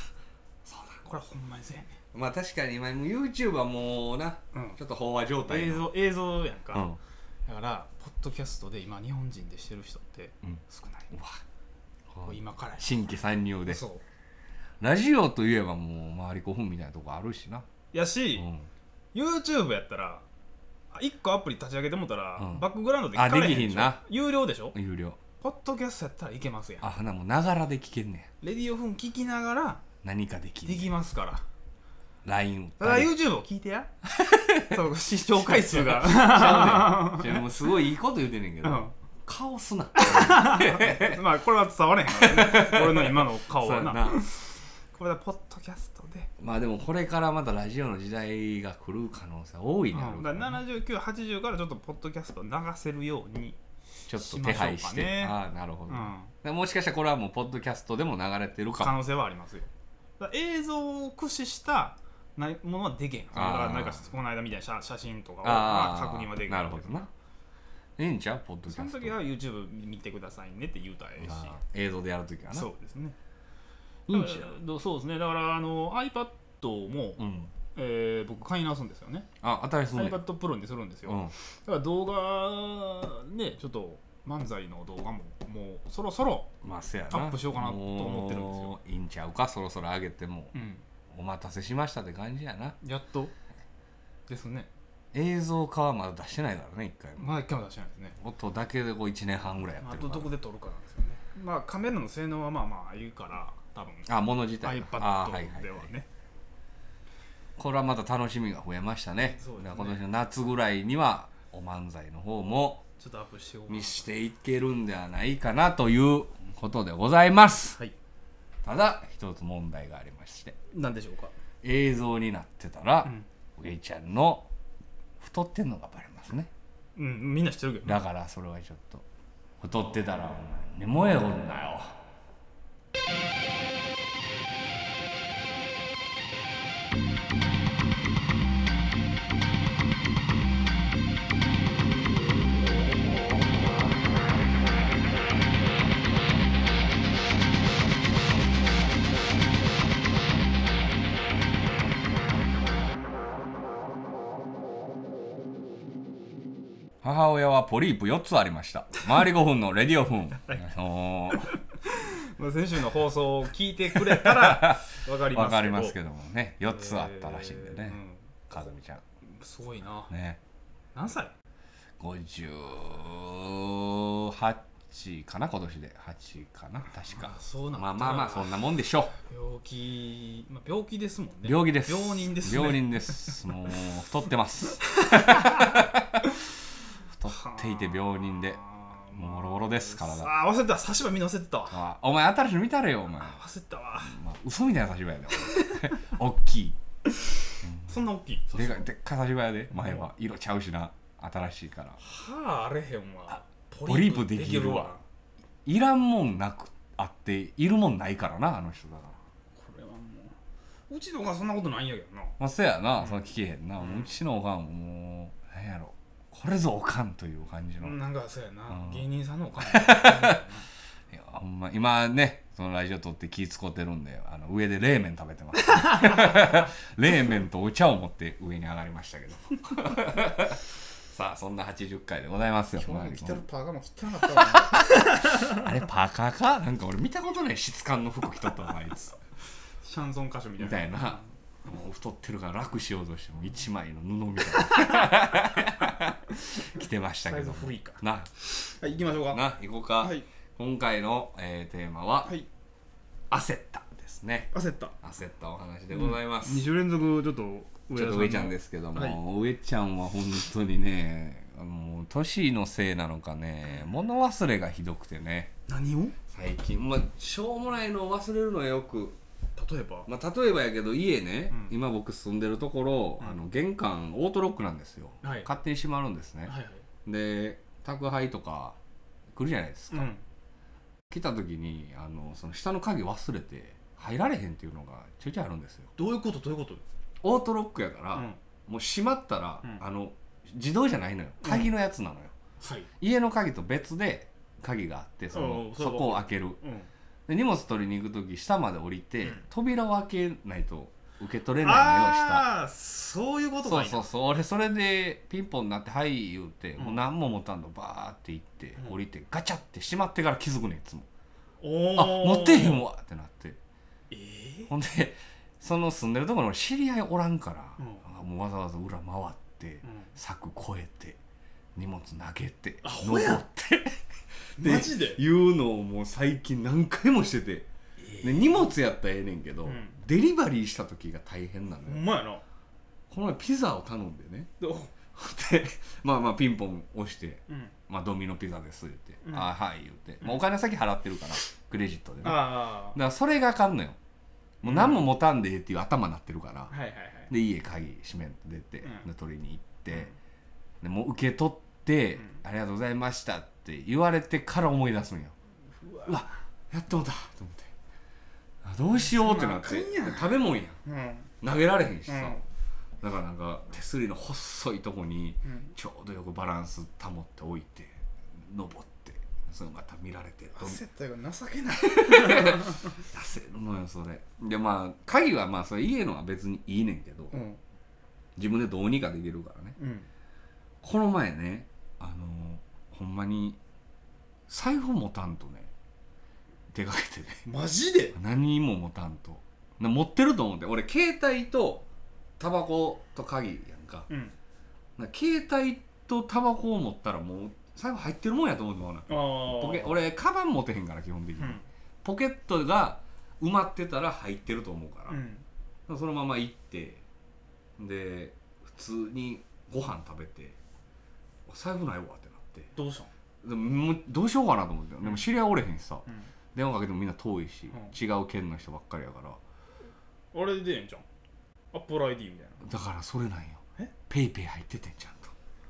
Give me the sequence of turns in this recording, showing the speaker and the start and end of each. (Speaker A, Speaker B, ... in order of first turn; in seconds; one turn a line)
Speaker A: 0.7-1.0
Speaker B: 1.0-2.0
Speaker A: 2.1-5.9
Speaker B: 4.5-4.8
Speaker B: 5.5-11.1
Speaker A: 6.7-7.0
Speaker A: 10.4-11.4
Speaker A: 12.1-13.8
Speaker B: 12.2-13.0
Speaker B: 13.7-14.0
Speaker A: 14.8-17.6
Speaker B: 17.9-18.5
Speaker A: 18.4-18.7
Speaker B: 19.1-20.2
Speaker B: 20.9-24.8
Speaker A: 22.4-24.0
Speaker A: 24.7-25.2
Speaker B: 25.4-26.9
Speaker A: 26.8-28.3
Speaker B: 28.4-29.8
Speaker A: 30.0-30.9
Speaker B: 30.6-31.4
Speaker A: 32.2-33.1
Speaker B: 32.8-33.9
Speaker A: 34.1-34.8
Speaker B: 34.5-37.4
Speaker A: 35.4-41.2
Speaker B: 38.6-38.9
Speaker B: 40.0-46.3
Speaker A: 42.2-44.2
Speaker A: 46.4-50.6
Speaker B: 49.9-53.6
Speaker A: 54.1-59.0
Speaker B: 54.1-55.3
Speaker B: 55.9-56.3
Speaker B: 58.8-67.1
Speaker A: 63.3-64.0
Speaker A: 65.4-67.1
Speaker A: 68.0-69.1
Speaker B: 68.7-71.5
Speaker A: 71.2-72.7
Speaker B: 72.5-73.2
Speaker A: 74.1-74.5
Speaker B: 74.1-79.3
Speaker A: 77.2-77.5
Speaker A: 79.4-80.2
Speaker B: 79.9-86.5
Speaker A: 81.0-81.3
Speaker A: 86.6-90.5
Speaker B: 87.1-88.8
Speaker B: 90.5-90.8
Speaker A: 91.1-92.8
Speaker B: 92.8-93.3
Speaker B: 94.3-94.7
Speaker A: 95.1-97.4
Speaker B: 97.2-98.2
Speaker A: 98.2-100.3
Speaker B: 99.8-104.1
Speaker A: 104.1-105.9
Speaker B: 104.6-106.1
Speaker A: 107.6-112.8
Speaker B: 109.2-110.0
Speaker B: 113.0-114.0
Speaker A: 113.7-117.8
Speaker A: 118.6-120.5
Speaker B: 120.7-121.3
Speaker A: 121.6-124.5
Speaker A: 125.2-126.5
Speaker B: 127.0-128.0
Speaker A: 127.8-129.0
Speaker A: 129.6-132.0
Speaker A: 157.0-161.5
Speaker B: 161.3-165.9
Speaker A: 164.0-169.0
Speaker B: 166.7-168.3
Speaker B: 169.3-170.1
Speaker A: 170.1-170.4
Speaker B: 170.9-171.3
Speaker A: 172.0-179.1
Speaker B: 177.1-178.6
Speaker B: 179.2-183.5
Speaker A: 181.4-186.2
Speaker B: 185.0-185.9
Speaker A: 187.1-188.6
Speaker B: 187.3-191.8
Speaker A: 189.1-190.3
Speaker A: 191.7-193.4
Speaker B: 193.2-194.2
Speaker A: 194.1-196.8
Speaker B: 195.4-195.9
Speaker A: 197.6-197.9
Speaker B: 197.9-198.8
Speaker A: 198.5-202.0
Speaker B: 199.7-200.1
Speaker B: 202.0-205.0
Speaker A: 203.3-204.9
Speaker A: 205.7-209.2
Speaker B: 209.5-210.3
Speaker B: 210.9-212.3
Speaker A: 212.4-217.9
Speaker B: 213.0-213.2
Speaker B: 213.8-214.2
Speaker B: 217.8-220.7
Speaker A: 218.7-219.0
Speaker A: 219.6-220.4
Speaker A: 221.1-233.4
Speaker B: 232.8-235.5
Speaker A: 234.2-239.2
Speaker B: 239.8-241.2
Speaker A: 240.6-248.3
Speaker B: 244.5-245.4
Speaker B: 247.2-249.4
Speaker A: 248.9-252.3
Speaker B: 250.0-250.3
Speaker A: 253.3-256.7
Speaker B: 254.5-254.9
Speaker B: 255.9-259.2
Speaker A: 257.9-265.5
Speaker B: 265.7-266.1
Speaker A: 266.3-269.2
Speaker B: 269.6-270.1
Speaker A: 270.1-278.8
Speaker B: 275.2-275.5
Speaker B: 276.4-276.8
Speaker A: 279.3-280.1
Speaker B: 279.9-280.2
Speaker A: 281.1-285.9
Speaker B: 285.9-286.8
Speaker A: 287.2-292.3
Speaker B: 291.4-291.7
Speaker B: 292.6-292.9
Speaker A: 293.0-296.6
Speaker B: 295.3-296.9
Speaker A: 297.3-302.4
Speaker B: 301.6-304.1
Speaker A: 303.6-311.1
Speaker B: 311.6-312.9
Speaker A: 311.9-313.6
Speaker B: 314.1-314.7
Speaker A: 314.7-321.2
Speaker B: 319.8-320.1
Speaker A: 321.7-324.0
Speaker B: 322.8-323.4
Speaker A: 324.6-327.7
Speaker B: 324.6-325.2
Speaker B: 328.0-328.7
Speaker A: 328.2-332.0
Speaker B: 329.6-329.9
Speaker B: 331.9-332.4
Speaker A: 333.1-334.5
Speaker B: 334.6-334.9
Speaker A: 335.1-344.0
Speaker B: 337.5-337.7
Speaker B: 342.2-343.0
Speaker B: 344.6-345.1
Speaker A: 344.6-346.7
Speaker B: 346.7-347.3
Speaker A: 347.3-350.1
Speaker A: 350.8-355.3
Speaker B: 355.8-356.3
Speaker A: 356.0-357.7
Speaker A: 358.6-360.8
Speaker B: 358.9-361.3
Speaker A: 361.4-362.4
Speaker B: 362.1-362.4
Speaker A: 363.0-370.8
Speaker B: 365.4-365.7
Speaker B: 370.5-373.0
Speaker A: 371.8-377.3
Speaker B: 377.3-377.6
Speaker A: 378.4-379.8
Speaker B: 379.8-380.1
Speaker A: 380.8-383.6
Speaker A: 384.5-385.7
Speaker A: 386.7-387.5
Speaker B: 387.5-388.1
Speaker A: 388.1-391.9
Speaker A: 392.4-394.1
Speaker B: 394.1-394.3
Speaker A: 395.0-405.2
Speaker B: 399.1-400.0
Speaker B: 401.4-401.6
Speaker B: 405.1-405.4
Speaker A: 405.9-407.0
Speaker A: 407.8-410.6
Speaker A: 411.5-412.7
Speaker B: 412.7-413.1
Speaker A: 413.4-419.4
Speaker B: 420.3-421.0
Speaker B: 421.7-422.6
Speaker A: 422.6-425.3